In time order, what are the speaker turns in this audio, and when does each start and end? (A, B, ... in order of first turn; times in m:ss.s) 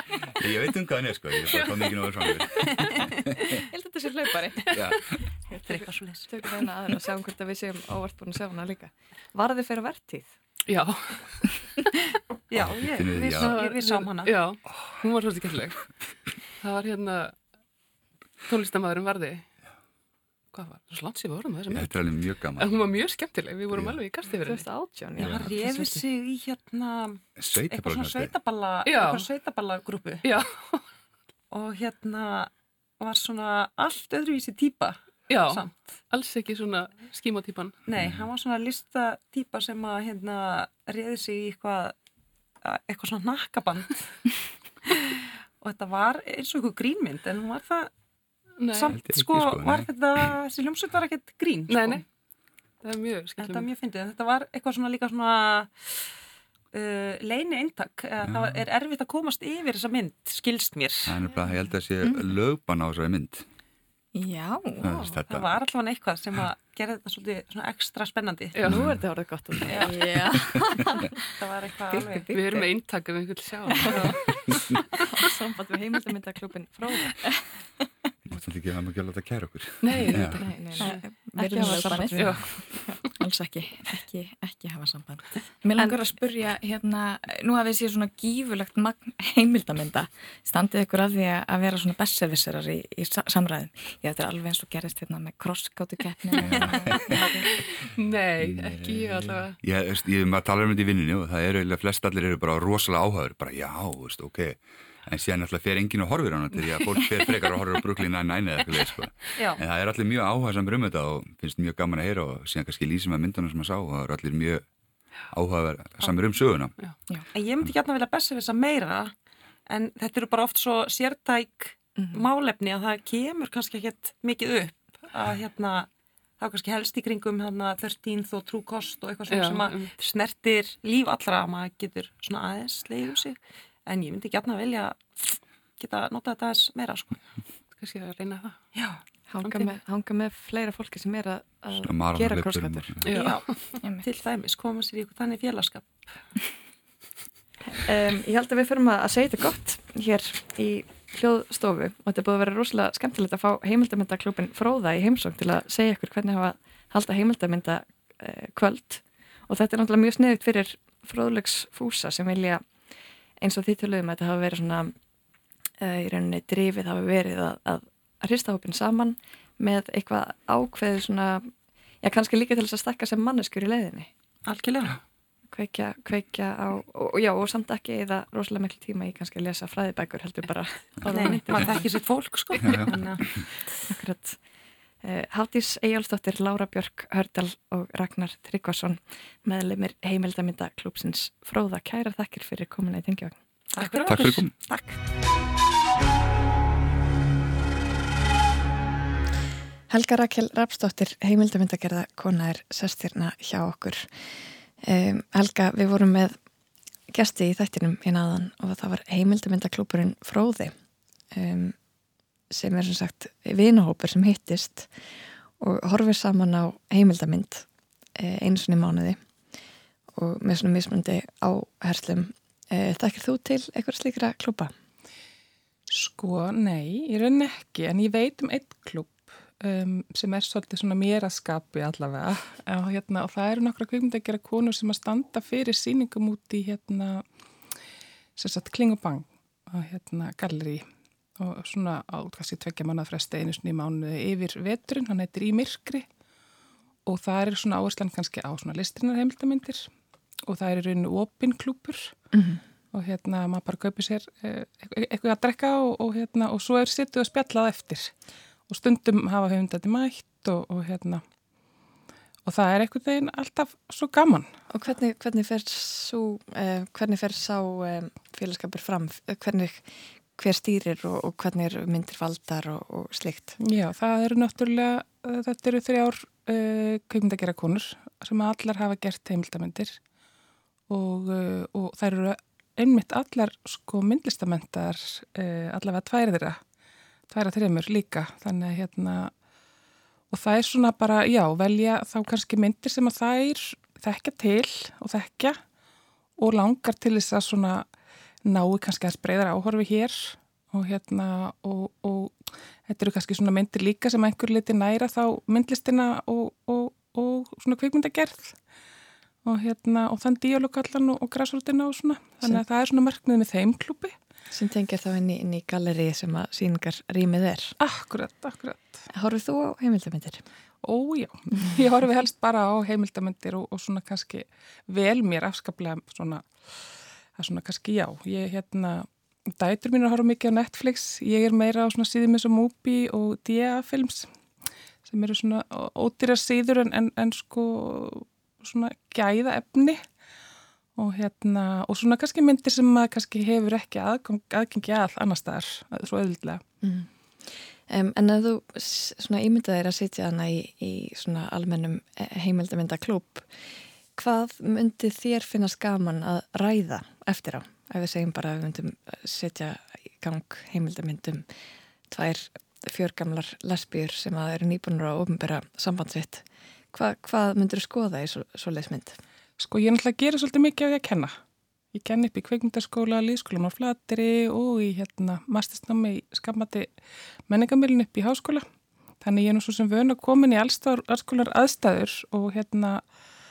0:00.4-0:02.5 A
0:01.4-0:02.8 B
0:03.9-0:04.4 C
0:04.7-0:05.0 A
0:05.6-0:06.4 D
0:06.3-0:10.3 C
0:10.7-0:11.5 B
0:12.5-0:14.4 D
0:12.5-0:13.6 A
0:13.2-0:15.8 B
0:16.6-0:17.4 B
0:18.5-0:19.4 B
0:20.5-0:22.0 B
0:21.7-0:22.8 A
0:22.6-0:24.7 B
0:23.7-0:24.0 A
0:24.4-0:25.9 C
0:25.2-0:30.2 D
0:25.2-0:25.5 A
0:27.4-0:28.4 A
0:28.8-0:29.3 B
0:30.2-0:30.8 B
0:31.5-0:35.9 D
0:35.3-0:37.8 B
0:37.9-0:42.0 D
0:37.9-0:38.3 A
0:42.6-0:44.1 D
0:45.6-0:47.9 D
0:48.6-0:49.0 B
0:48.7-0:52.0 D
0:48.9-0:50.3 A
0:51.7-0:52.0 B
0:52.8-0:53.7 B
0:53.4-0:56.1 D
0:56.7-1:01.2 D
0:58.2-0:58.6 A
1:01.1-1:03.4 A
1:04.2-1:05.1 E
1:04.8-1:05.6 A
1:05.3-1:08.6 D
1:08.5-1:08.8 B
1:08.7-1:10.4 C
1:08.7-1:09.0 A
1:09.7-1:10.0 D
1:09.8-1:10.5 E
1:11.4-1:12.3 D
1:11.9-1:12.6 C
1:12.2-1:14.8 B
1:15.2-1:17.3 C
1:18.3-1:20.4 A
1:19.8-1:21.0 B
1:20.2-1:22.5 C
1:21.4-1:22.3 E
1:21.6-1:22.9 B
1:23.2-1:36.9 E
1:36.4-1:39.6 B
1:36.5-1:37.1 A
1:38.4-1:54.6 A
1:46.5-1:47.8 B
1:49.4-1:49.6 D
1:55.3-1:56.8 A
1:57.3-1:59.1 D
1:59.7-2:05.9 D
2:06.4-2:17.2 D
2:09.3-2:09.9 B
2:17.8-2:18.6 B
2:18.7-2:19.0 D
2:19.3-2:23.0 C
2:19.4-2:19.7 B
2:21.7-2:23.1 A
2:23.0-2:23.6 B
2:24.0-2:26.2 D
2:27.8-2:42.6 C
2:43.4-2:44.9 C
2:45.8-2:51.5 C
2:52.0-2:54.1 C
2:54.5-2:55.0 D
2:55.5-3:01.8 C
3:01.0-3:03.4 D
3:03.9-3:04.4 C
3:05.0-3:13.4 C
3:13.8-3:15.0 D
3:14.1-3:14.5 A
3:19.9-3:24.1 C
3:24.8-3:26.4 C
3:27.1-3:30.7 C
3:31.3-3:31.8 C
3:32.5-3:34.9 C
3:35.6-3:37.7 C
3:38.2-3:39.2 C
3:40.2-3:44.7 C
3:45.9-3:57.2 F
3:58.4-4:00.8 F
4:01.4-4:06.1 F
4:07.1-4:09.9 F
4:10.5-4:12.2 F
4:12.9-4:18.1 F
4:18.7-4:21.2 F
4:22.4-4:24.5 F
4:24.7-4:33.6 C
4:33.6-4:40.0 F
4:40.9-4:46.6 F
4:47.3-4:49.3 F
4:50.3-4:55.6 F
4:56.4-4:57.9 F
4:58.4-5:08.6 F
5:09.4-5:14.1 F
5:14.5-5:17.7 C
5:17.8-5:19.0 F
5:19.1-5:20.4 C
5:20.8-5:26.5 F
5:27.4-5:34.3 F
5:35.0-5:40.0 F
5:41.0-5:46.6 F
5:46.8-5:53.6 C
5:54.2-6:01.5 C
6:02.1-6:09.2 C
6:09.6-6:11.4 F
6:11.9-6:16.9 F
6:17.5-6:18.7 F
6:19.2-6:23.0 F